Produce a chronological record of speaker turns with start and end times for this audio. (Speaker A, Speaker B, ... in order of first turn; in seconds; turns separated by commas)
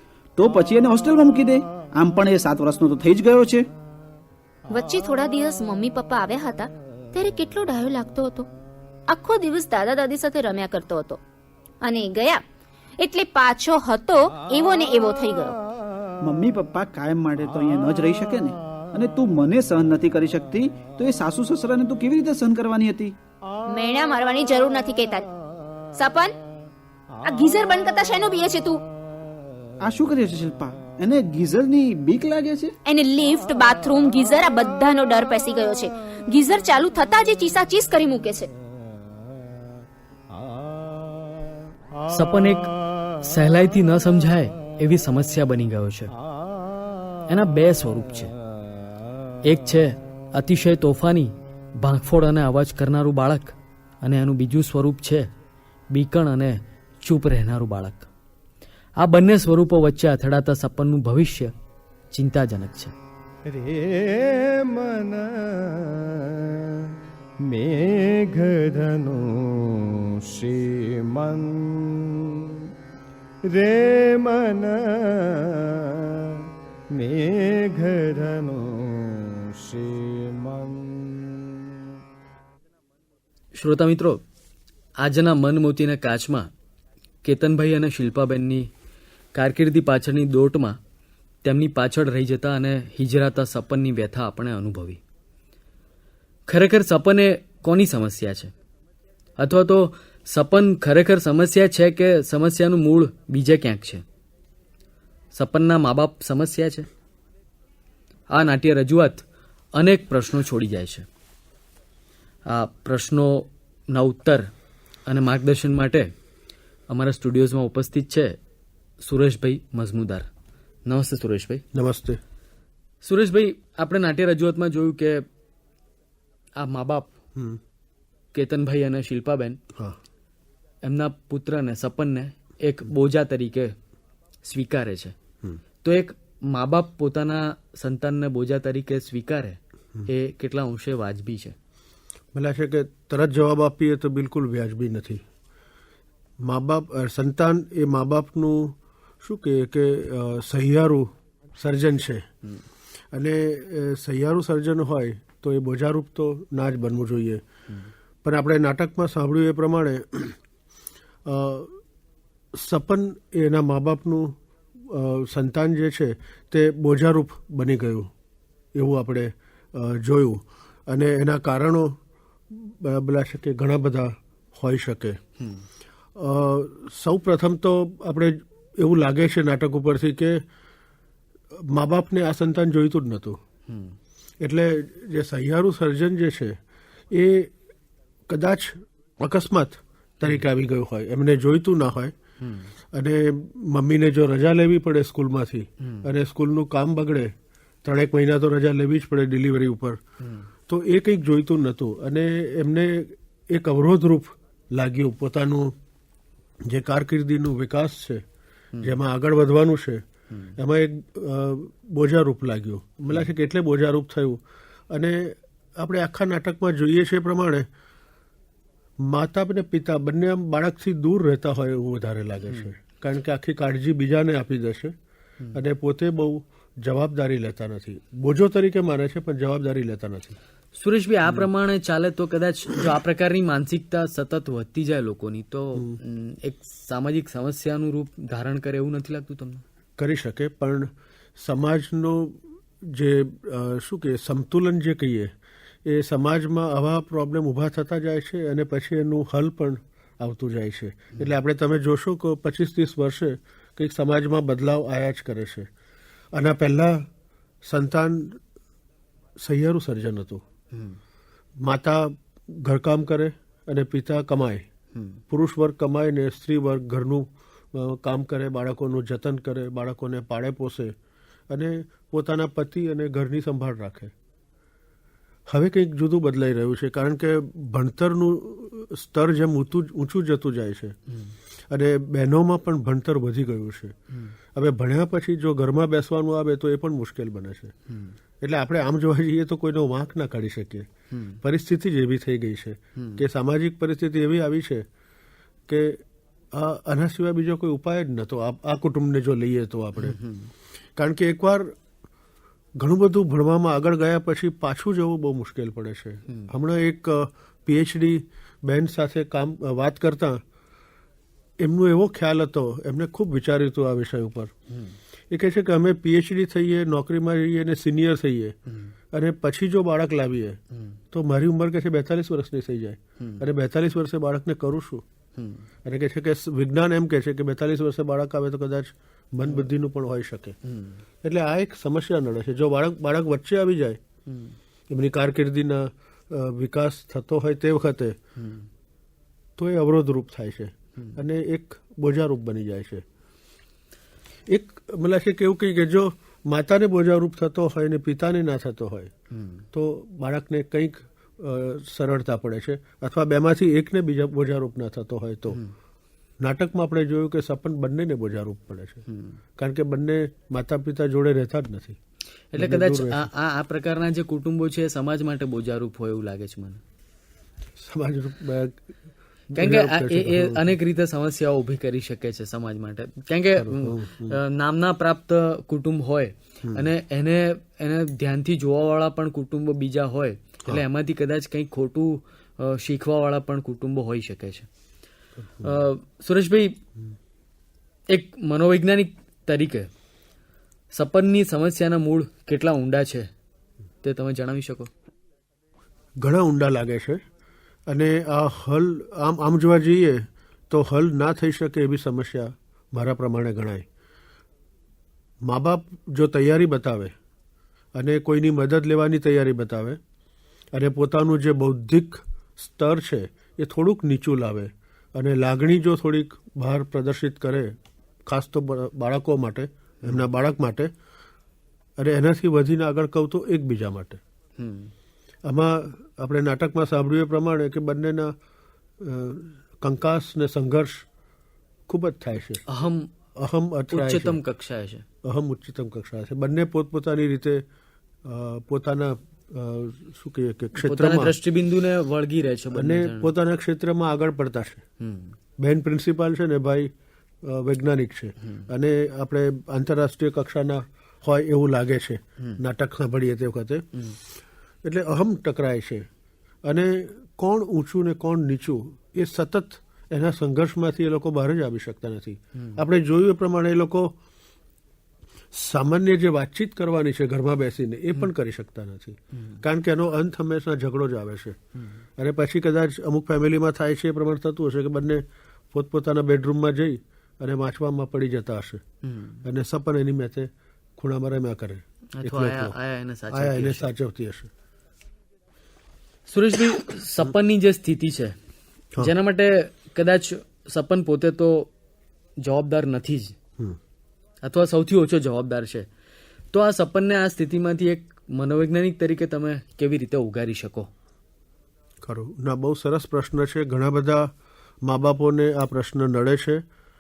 Speaker A: 0.4-3.6, Speaker B: 4.7-8.5, Speaker B: 9.1-11.2, Speaker B: 11.8-12.4, Speaker B: 13.0-15.6, Speaker A: 16.2-23.1, Speaker B: 23.7-25.3, Speaker B: 25.9-26.4, Speaker B: 27.2-28.8, Speaker A: 29.8-32.8, Speaker B: 32.9-38.5, Speaker C: 42.1-42.7, Speaker C: 43.2-46.1, Speaker C: 47.3-48.3, Speaker C: 49.5-55.3, Speaker C: 55.9-58.1, Speaker C: 59.0-61.5, Speaker C: 62.1-62.9, Speaker D: 63.5-66.8, Speaker D: 67.5-72.4, Speaker D: 73.5-76.3, Speaker D: 77.0-81.7, Speaker C: 83.6-84.2, Speaker C: 85.0-86.5, Speaker C: 87.2-88.7, Speaker C: 89.3-90.8, Speaker C: 91.4-95.0, Speaker C: 96.5-98.5, Speaker C: 99.4-104.0, Speaker C: 105.3-106.9, Speaker C: 108.3-109.2, Speaker C: 109.8-111.1, Speaker C: 112.5-114.5, Speaker C: 115.1-116.1, Speaker C: 116.9-118.4, Speaker C: 119.0-120.3, Speaker C: 120.9-121.6, Speaker E: 121.7-122.2, Speaker C: 123.0-125.2, Speaker C: 126.6-127.1, Speaker C: 128.3-129.6, Speaker C: 130.8-133.8, Speaker C: 134.4-135.2, Speaker C: 135.8-141.6, Speaker E: 142.3-145.2, Speaker E: 146.4-152.3, Speaker E: 153.1-157.4, Speaker E: 158.2-160.4, Speaker E: 161.3-161.8, Speaker E: 162.5-168.1, Speaker E: 168.8-172.0, Speaker E: 172.5-175.2, Speaker C: 175.4-175.7, Speaker E: 176.2-180.4, Speaker E: 181.6-183.4, Speaker C: 183.7-184.0, Speaker E: 184.4-186.6, Speaker E: 187.1-187.5, Speaker E: 188.3-192.2, Speaker C: 192.4-192.7, Speaker E: 192.9-200.0, Speaker C: 195.8-196.1, Speaker C: 200.2-200.5, Speaker E: 200.7-205.8, Speaker E: 206.7-208.2, Speaker E: 208.8-210.1, Speaker E: 210.6-217.7, Speaker E: 219.0-224.9, Speaker E: 225.5-230.4, Speaker C: 230.8-239.6, Speaker E: 240.0-245.3, Speaker E: 245.8-255.7, Speaker E: 256.4-257.1, Speaker E: 257.6-258.4, Speaker E: 259.4-260.4, Speaker C: 260.7-261.0, Speaker E: 261.6-264.7, Speaker C: 264.9-265.2, Speaker E: 265.3-270.9, Speaker E: 271.5-274.1, Speaker E: 275.5-281.0, Speaker C: 281.1-281.4, Speaker E: 281.7-283.9, Speaker E: 284.6-287.7, Speaker C: 287.9-288.1, Speaker E: 288.4-290.9, Speaker C: 291.1-291.4, Speaker E: 291.4-294.9, Speaker C: 293.0-293.3, Speaker E: 295.7-300.2, Speaker C: 300.0-300.5, Speaker E: 301.0-301.7, Speaker E: 302.8-310.4, Speaker E: 311.6-314.5, Speaker C: 314.7-315.0, Speaker E: 315.3-318.6, Speaker E: 319.1-320.6, Speaker C: 320.7-321.0, Speaker E: 321.1-325.0, Speaker C: 325.4-325.6, Speaker E: 325.8-330.6, Speaker C: 330.6-331.0, Speaker E: 331.2-334.0, Speaker C: 334.3-334.6, Speaker E: 334.9-338.2, Speaker C: 338.4-338.7, Speaker E: 339.6-343.0, Speaker E: 344.5-349.1, Speaker C: 349.3-349.6, Speaker E: 349.7-355.6, Speaker E: 356.4-359.0, Speaker C: 359.1-359.4, Speaker E: 359.6-362.0, Speaker C: 362.5-366.8, Speaker E: 362.6-363.3, Speaker E: 367.8-368.8, Speaker E: 369.5-370.8, Speaker C: 369.6-384.7, Speaker E: 373.6-374.4, Speaker E: 376.6-376.9, Speaker C: 385.6-386.8, Speaker C: 388.1-389.9, Speaker C: 390.9-393.3, Speaker C: 394.0-394.9, Speaker E: 396.2-397.2, Speaker E: 397.9-403.9, Speaker E: 405.5-407.1, Speaker E: 408.0-410.0, Speaker E: 410.7-417.8, Speaker E: 418.3-420.9, Speaker E: 422.0-424.2, Speaker C: 424.6-424.9, Speaker E: 425.5-428.3, Speaker E: 429.0-431.1, Speaker E: 431.9-432.6, Speaker C: 432.7-433.1, Speaker E: 433.4-434.4, Speaker C: 433.9-435.1, Speaker E: 435.2-437.6, Speaker E: 438.2-441.3, Speaker C: 440.8-443.3, Speaker E: 442.7-444.8, Speaker C: 445.0-445.4, Speaker E: 445.6-446.9, Speaker E: 447.4-453.9, Speaker E: 454.8-456.1, Speaker E: 456.7-464.1, Speaker E: 465.5-471.6, Speaker E: 472.2-478.8, Speaker C: 479.0-479.4, Speaker E: 479.4-482.8, Speaker C: 482.2-483.9, Speaker E: 483.3-484.5, Speaker C: 486.3-488.4, Speaker C: 489.0-491.7, Speaker C: 492.4-493.4, Speaker C: 494.4-495.9, Speaker C: 496.5-500.9, Speaker E: 502.0-504.3, Speaker E: 504.8-506.6